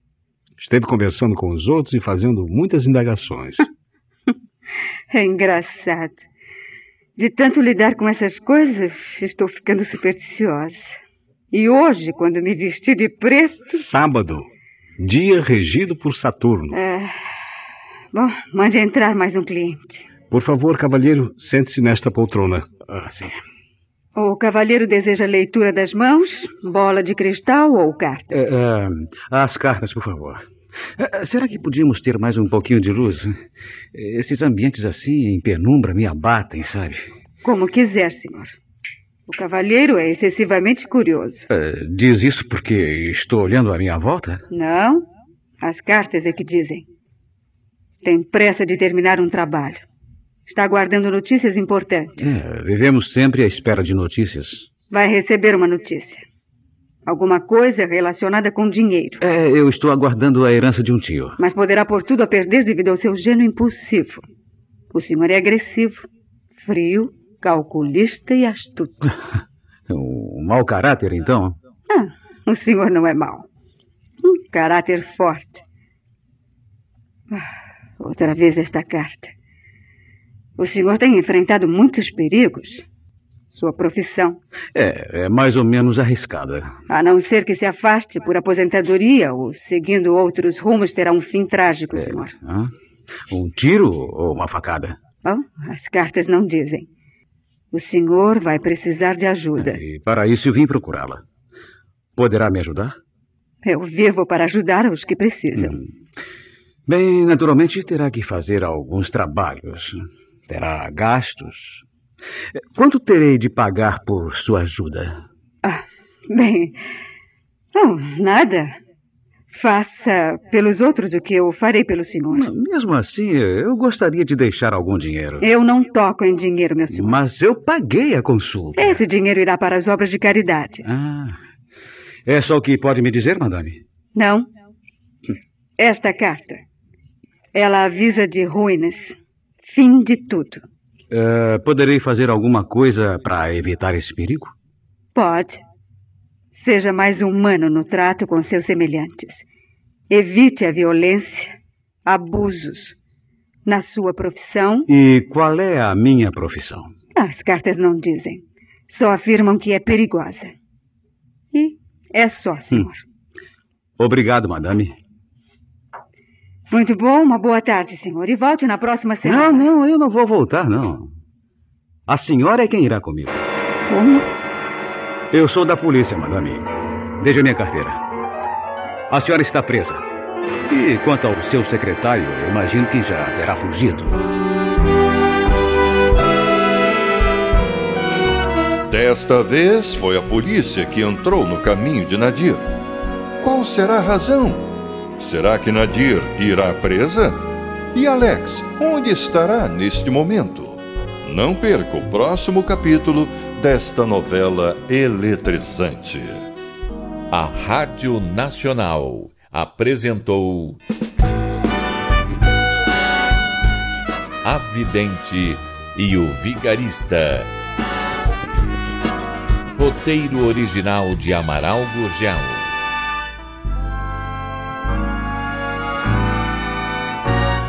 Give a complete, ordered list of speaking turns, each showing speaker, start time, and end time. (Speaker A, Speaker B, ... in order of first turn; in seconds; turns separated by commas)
Speaker A: 0.6-3.7, Speaker B: 5.1-6.2, Speaker B: 7.2-10.8, Speaker B: 11.5-13.8, Speaker A: 13.7-14.5, Speaker A: 15.0-16.8, Speaker B: 16.7-17.1, Speaker B: 18.1-20.1, Speaker A: 20.3-23.4, Speaker B: 24.1-28.5, Speaker C: 28.3-30.4, Speaker C: 31.0-33.4, Speaker C: 33.9-37.0, Speaker B: 37.4-38.6, Speaker B: 39.3-41.5, Speaker C: 41.5-44.4, Speaker B: 44.5-45.1, Speaker B: 45.6-46.9, Speaker B: 48.0-49.8, Speaker B: 50.5-52.4, Speaker C: 52.2-54.7, Speaker B: 54.9-56.2, Speaker B: 57.0-59.2, Speaker C: 59.2-61.4, Speaker B: 61.4-64.2, Speaker B: 64.9-69.0, Speaker C: 69.9-71.6, Speaker B: 71.9-73.5, Speaker B: 74.2-75.6, Speaker B: 78.0-79.3, Speaker B: 80.6-82.8, Speaker B: 83.5-84.4, Speaker C: 84.7-86.7, Speaker B: 86.9-92.4, Speaker C: 92.0-92.7, Speaker C: 93.3-95.0, Speaker B: 95.2-96.9, Speaker B: 97.7-99.8, Speaker C: 99.6-101.2, Speaker C: 102.2-103.0, Speaker B: 103.6-105.8, Speaker C: 106.9-111.8, Speaker C: 112.6-115.2, Speaker B: 115.6-116.8, Speaker B: 117.7-118.8, Speaker B: 119.5-122.5, Speaker C: 122.3-125.5, Speaker B: 125.4-127.2, Speaker C: 126.9-129.0, Speaker B: 128.8-130.9, Speaker C: 130.8-131.4, Speaker C: 132.2-133.8, Speaker B: 134.1-134.5, Speaker B: 135.8-136.6, Speaker B: 137.5-140.6, Speaker C: 141.1-144.5, Speaker B: 145.2-145.6, Speaker B: 146.5-149.4, Speaker B: 150.1-151.5, Speaker B: 152.1-153.0, Speaker B: 153.7-154.9, Speaker C: 154.9-156.9, Speaker B: 157.2-160.5, Speaker B: 161.5-163.0, Speaker C: 164.0-165.0, Speaker B: 166.7-169.7, Speaker C: 169.2-171.1, Speaker C: 172.1-173.5, Speaker B: 173.9-174.3, Speaker C: 175.3-178.0, Speaker C: 179.1-180.0, Speaker C: 180.7-184.2, Speaker D: 188.9-192.7, Speaker D: 193.4-197.4, Speaker D: 197.9-206.4, Speaker E: 207.3-210.8, Speaker E: 214.4-217.5, Speaker E: 219.8-222.7